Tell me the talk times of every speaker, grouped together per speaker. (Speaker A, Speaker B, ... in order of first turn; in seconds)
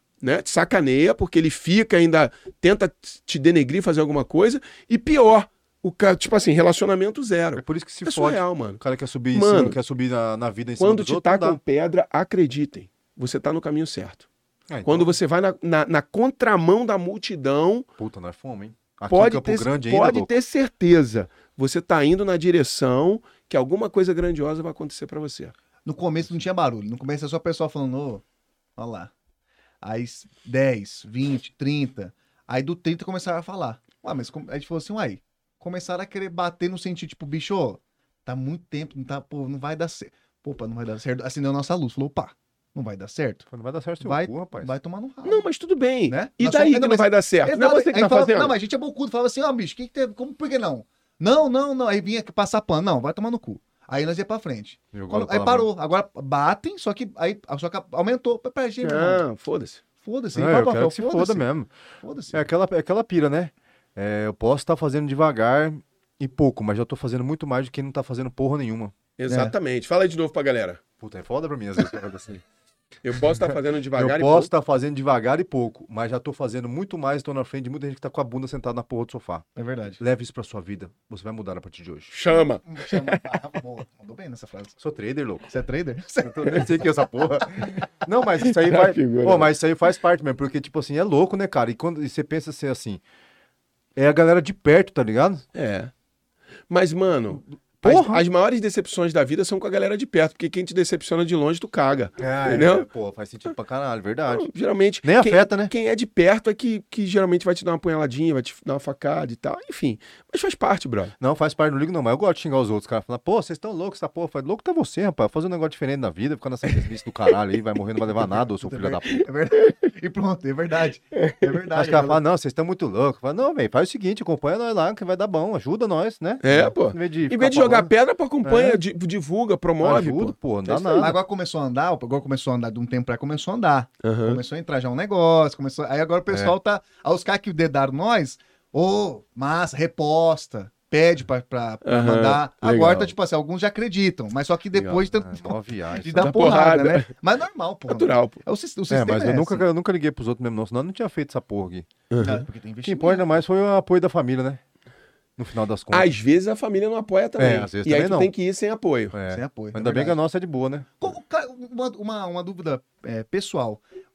Speaker A: 0.2-8.8, 9.3-9.8, 10.8-14.3, 14.8-17.9, 19.1-25.5, 45.2-48.5, 58.8-59.8, 69.2-70.8, 73.0-74.5, 82.1-83.4, 88.4-89.5, 95.5-95.9, 96.7-102.9, 104.3-111.1, 121.1-121.5, 126.4-131.1, 134.0-134.4, 141.8-143.1, 146.2-147.1, 147.9-148.4, 152.1-152.4, 155.9-159.1
Speaker B: 7.5-11.6, 14.7-15.2, 18.0-20.3, 43.5-44.7, 54.9-55.7, 60.3-61.7, 62.3-68.9, 71.0-72.4, 73.9-79.4, 80.0-82.1, 84.8-85.5, 86.2-93.0, 94.0-95.4, 97.8-98.2, 102.2-104.5, 105.0-105.7, 111.2-119.2, 121.7-127.9, 128.4-128.8, 129.8-131.2, 145.1-146.6, 148.9-151.9, 152.8-154.6, 155.4-156.1, 157.4-158.3, 159.1-161.1
Speaker C: 25.8-28.2, 28.8-29.1, 29.8-43.5, 44.0-45.5, 46.1-59.2, 60.0-61.4, 62.0-62.5, 69.3-69.5, 79.5-80.0, 82.6-84.8, 85.5-86.9, 118.0-122.2, 131.0-149.6, 152.2-153.4, 159.3-160.2, 161.0-163.8